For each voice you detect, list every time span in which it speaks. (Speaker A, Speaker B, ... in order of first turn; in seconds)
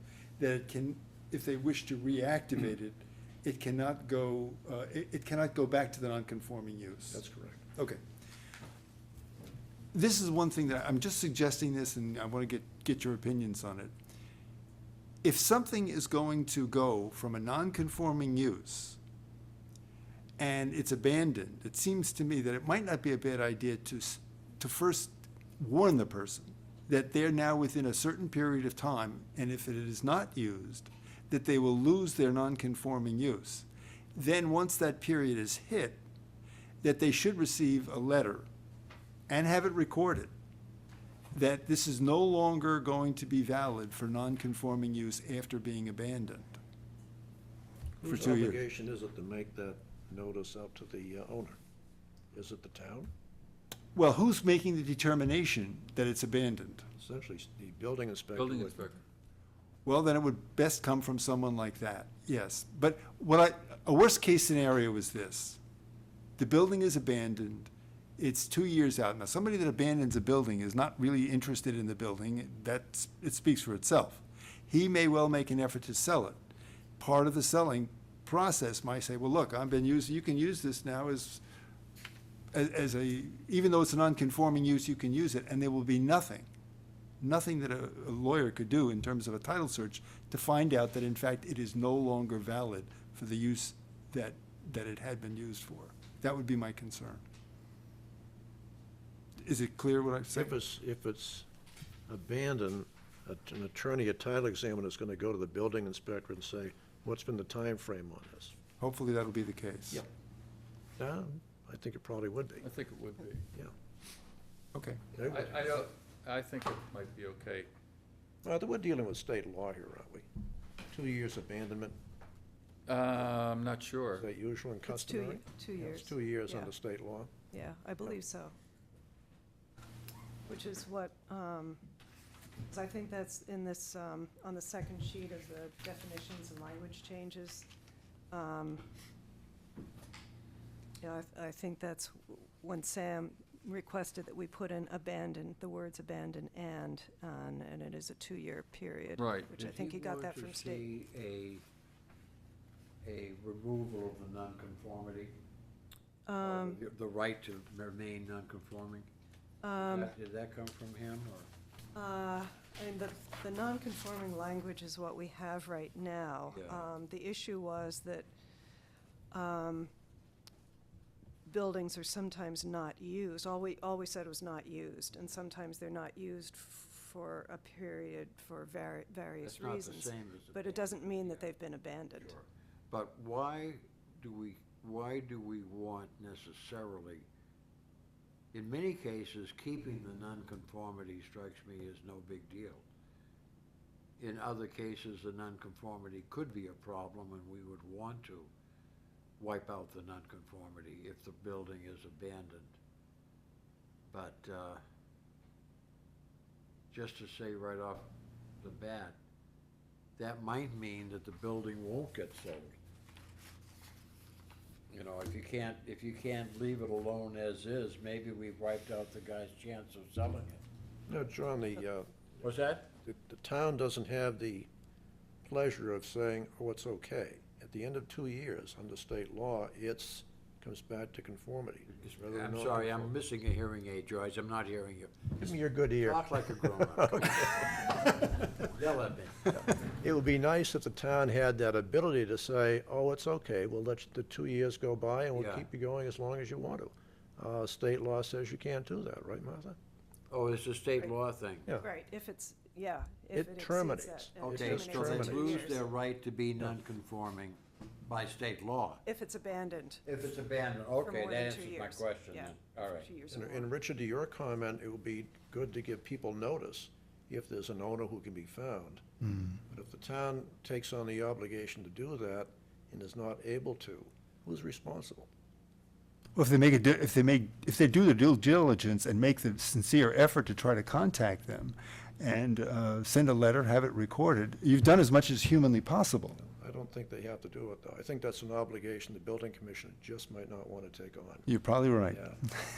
Speaker A: 0.4-7.2, 7.7-8.0, 9.9-13.9, 15.2-19.0, 20.4-36.0, 36.8-38.5, 39.3-40.3, 41.3-46.6, 48.0-48.6, 53.9-56.9, 59.8-65.6, 66.4-76.4, 77.0-81.4, 82.5-86.5, 87.2-97.2, 99.4-100.6, 108.8-110.0, 114.7-115.0, 276.4-286.4, 291.5-292.3
Speaker B: 7.1-7.6, 48.0-51.6, 52.3-53.1, 57.0-58.9, 100.3-101.5, 102.1-108.5, 111.0-112.7, 115.1-115.8, 118.4-120.3, 120.9-122.0, 124.2-127.3, 221.1-222.2, 223.0-224.7, 225.4-233.1, 235.4-238.2, 239.5-249.8, 253.3-255.7, 263.3-269.0, 269.7-275.3, 286.4-291.5, 292.1-292.4
Speaker C: 58.3-59.0, 112.6-113.5, 115.2-117.7, 122.9-124.2, 149.2-149.5
Speaker D: 124.9-126.7, 127.5-128.5, 130.5-131.8, 132.7-137.7, 138.3-138.8, 141.0-150.9, 156.2-156.8, 159.6-160.1, 161.9-168.3, 169.3-169.9, 171.4-182.3, 251.8-255.8, 259.0-260.0, 261.0-263.7
Speaker E: 149.5-151.6, 153.0-155.3, 156.4-159.1, 159.7-161.5, 166.5-166.9, 179.4-187.3, 188.5-192.8, 194.2-198.5, 199.4-202.8, 204.1-204.8, 206.9-209.2, 210.2-212.8, 214.9-220.6, 222.4-222.9, 232.0-235.4, 236.0-239.5, 245.3-245.7, 250.3-251.7, 254.4-259.0, 260.0-263.1